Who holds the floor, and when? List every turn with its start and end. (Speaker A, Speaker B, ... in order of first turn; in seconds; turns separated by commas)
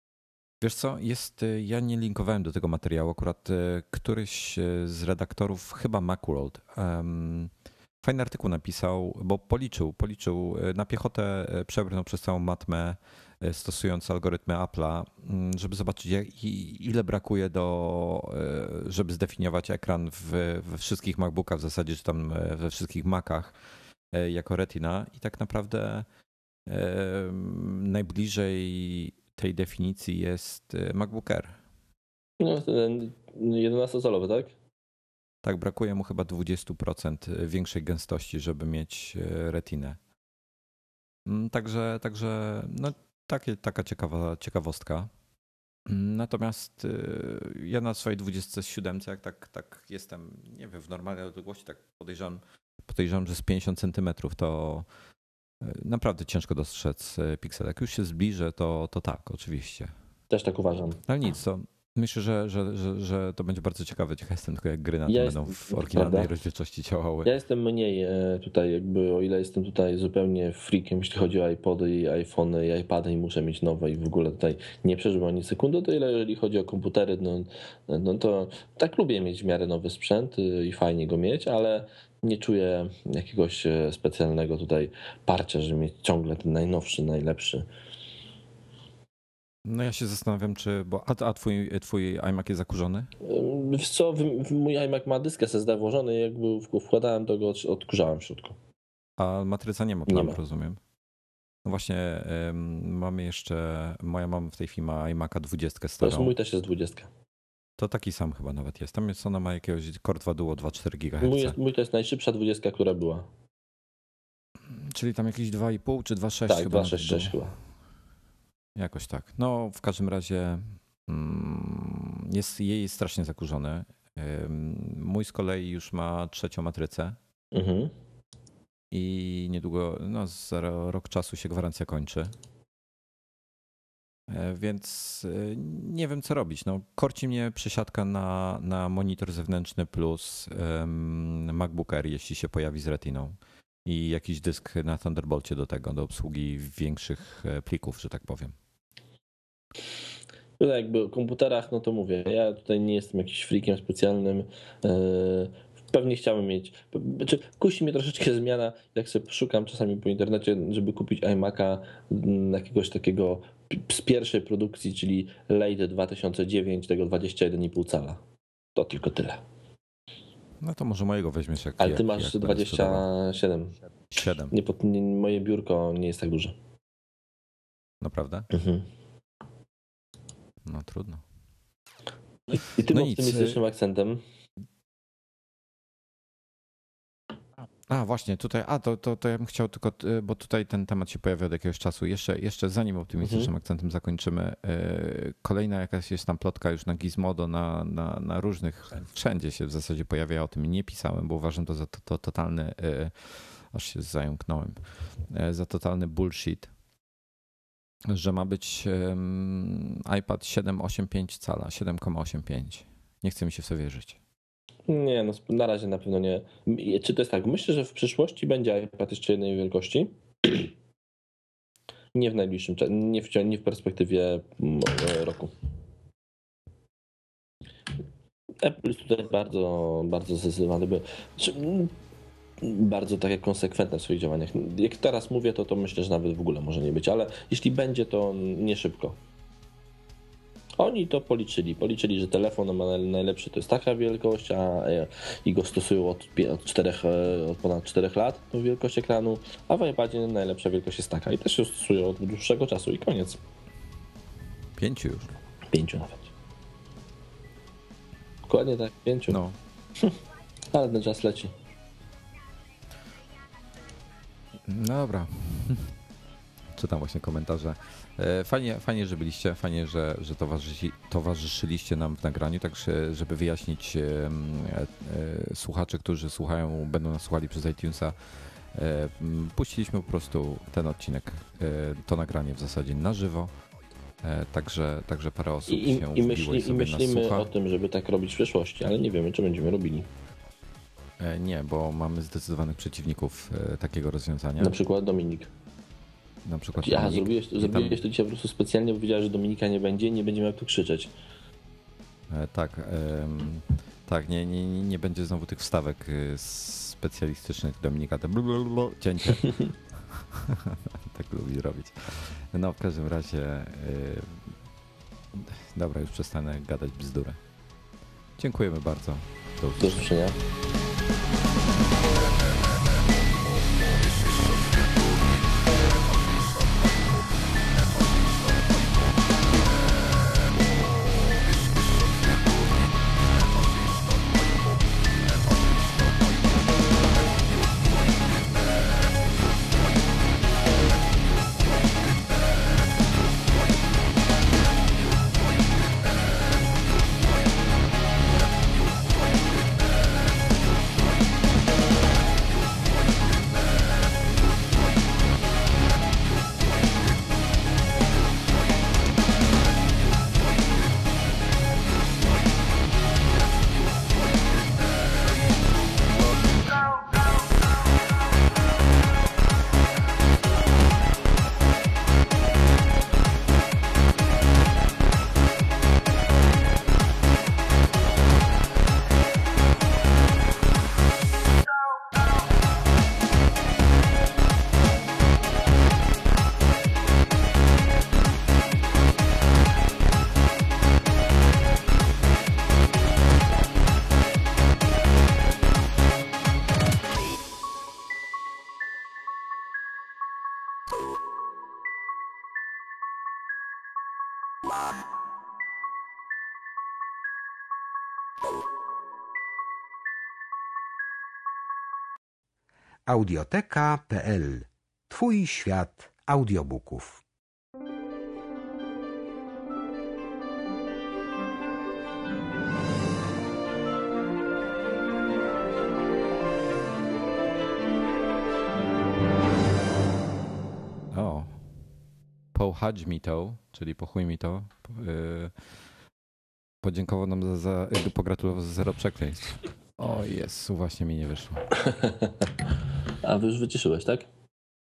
Speaker A: 0.6-23.6, Speaker A: 24.1-26.1, Speaker A: 26.7-31.6, Speaker B: 32.4-34.5, Speaker A: 35.4-40.0, Speaker A: 41.2-45.1, Speaker A: 45.9-54.9, Speaker A: 55.6-59.9, Speaker B: 60.3-61.0, Speaker A: 61.1-67.3, Speaker B: 65.1-66.3, Speaker B: 67.2-87.7, Speaker A: 89.7-93.1, Speaker B: 93.2-98.5, Speaker A: 99.2-100.8, Speaker B: 100.1-100.4, Speaker A: 101.6-106.3, Speaker B: 106.0-107.1, Speaker A: 107.8-111.6, Speaker B: 111.2-113.3, Speaker A: 114.7-117.4, Speaker B: 116.5-117.6, Speaker A: 118.7-127.2, Speaker B: 127.5-127.9, Speaker A: 128.9-132.3, Speaker A: 134.3-148.6, Speaker B: 150.6-168.2, Speaker B: 168.8-169.4, Speaker A: 170.6-173.1, Speaker B: 171.8-173.8, Speaker A: 174.1-174.5, Speaker B: 174.5-176.5, Speaker A: 178.0-178.5, Speaker B: 178.5-178.8, Speaker A: 180.6-181.2, Speaker B: 182.5-184.2, Speaker A: 182.9-183.6, Speaker A: 187.9-206.7, Speaker B: 193.2-193.5, Speaker A: 208.1-214.2, Speaker B: 214.9-220.7, Speaker B: 222.1-225.5, Speaker B: 228.6-231.9, Speaker B: 232.6-239.2, Speaker B: 240.8-253.4, Speaker A: 254.8-255.3, Speaker B: 255.7-256.3, Speaker B: 258.4-259.4, Speaker A: 259.3-259.6, Speaker B: 260.7-261.5, Speaker A: 264.6-266.0, Speaker A: 266.7-278.1, Speaker A: 278.7-283.5, Speaker A: 284.2-287.5, Speaker B: 285.7-290.1, Speaker A: 291.2-294.8, Speaker B: 294.6-295.5, Speaker A: 296.4-298.0, Speaker B: 296.8-301.1, Speaker A: 302.3-314.6, Speaker B: 309.4-309.7, Speaker A: 315.3-317.4, Speaker A: 318.4-320.1, Speaker B: 319.8-320.4, Speaker C: 413.1-417.2, Speaker A: 431.1-431.6, Speaker A: 432.5-435.6, Speaker A: 436.8-441.7, Speaker B: 441.8-442.5, Speaker B: 443.2-444.3